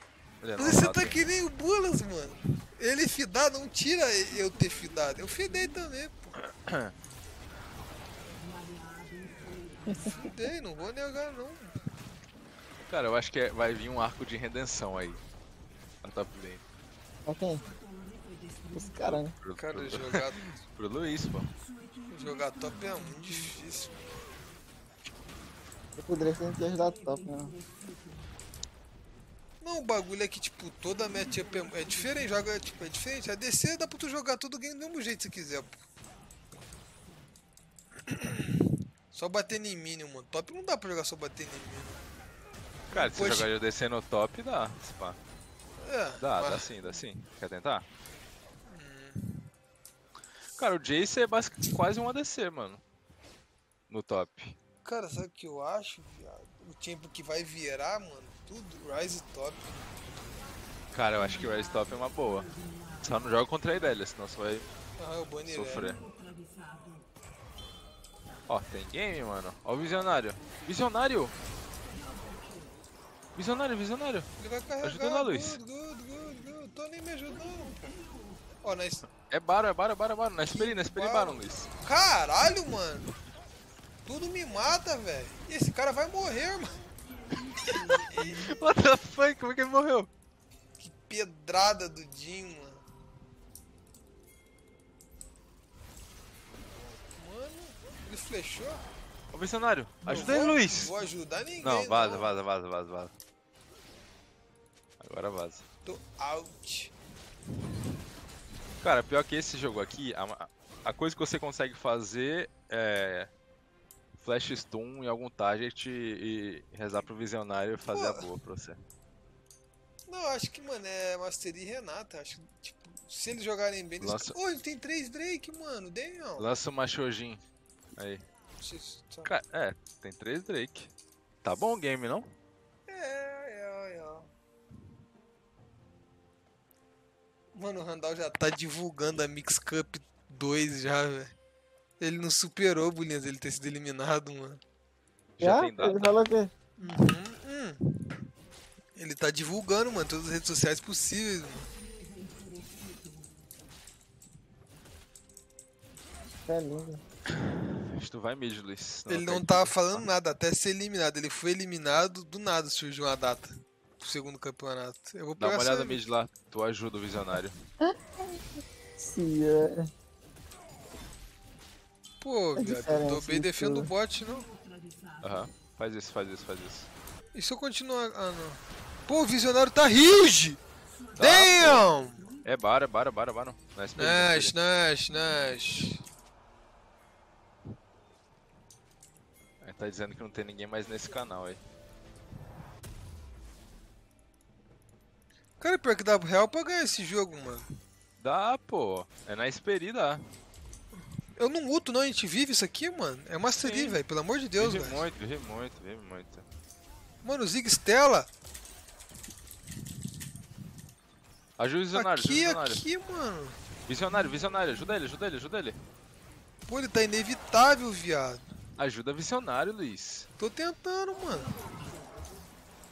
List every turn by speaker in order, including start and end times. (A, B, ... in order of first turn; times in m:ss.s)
0:00.4-0:01.2 A
0:00.6-0:06.3 B
0:06.4-0:06.9 A
0:10.2-0:11.7 B
0:12.9-0:15.2 A
0:16.0-0:16.6 A
0:17.2-0:17.6 C
0:18.7-0:19.3 C
0:19.0-0:20.1 A
0:19.6-0:20.6 B
0:20.6-0:21.5 A
0:22.1-0:24.0 B
0:26.0-0:27.6 C
0:29.6-0:35.8 B
0:38.1-0:42.0 B
0:42.9-0:43.5 B
0:42.9-0:45.2 A
0:45.8-0:46.7 B
0:46.2-0:47.8 A
0:48.7-0:49.4 B
0:50.6-0:52.8 A
0:53.9-0:54.6 A
0:54.8-0:59.8 B
1:00.9-1:02.5 A
1:03.0-1:04.6 A
1:05.0-1:06.0 B
1:05.5-1:06.1 A
1:08.5-1:11.3 A
1:13.3-1:14.3 A
1:14.4-1:17.9 B
1:14.8-1:15.6 A
1:18.6-1:19.1 B
1:19.3-1:21.7 A
1:20.4-1:23.1 B
1:24.0-1:26.8 B
1:27.7-1:30.1 A
1:28.1-1:28.5 B
1:30.8-1:32.8 B
1:37.1-1:38.8 B
1:39.3-1:40.9 A
1:40.0-1:42.3 B
1:41.6-1:43.1 A
1:45.0-1:45.6 A
1:45.8-1:46.9 B
1:48.8-1:53.3 A
1:54.2-1:58.8 A
1:57.9-1:58.2 B
2:00.1-2:06.5 B
2:04.0-2:04.4 A
2:06.4-2:07.4 A
2:08.0-2:08.2 A
2:08.6-2:09.3 B
2:09.2-2:10.9 A
2:11.4-2:12.3 A
2:12.9-2:14.3 B
2:17.5-2:21.3 B
2:22.0-2:24.6 B
2:25.4-2:26.2 A
2:25.4-2:26.5 C
2:26.8-2:28.1 B
2:29.0-2:31.7 B
2:36.5-2:37.0 C
2:37.3-2:40.0 A
2:39.1-2:46.0 B
2:45.4-2:47.6 A
2:47.8-2:48.4 C
2:49.0-2:49.9 C
2:52.2-2:54.5 B
2:52.6-2:53.9 C
2:55.2-2:56.9 A
2:57.3-3:00.6 B
3:01.2-3:01.9 A
3:01.2-3:02.3 B
3:02.4-3:04.5 A
3:04.0-3:06.0 B
3:09.6-3:11.6 A
3:15.6-3:17.7 B
3:18.2-3:20.2 A
3:21.4-3:25.0 B
3:23.6-3:24.0 A
3:24.6-3:26.4 A
3:27.2-3:28.3 B
3:31.6-3:32.8 A
3:31.9-3:33.6 B
3:33.9-3:35.8 A
3:36.7-3:38.4 B
3:38.8-3:40.3 A
3:40.4-3:41.5 B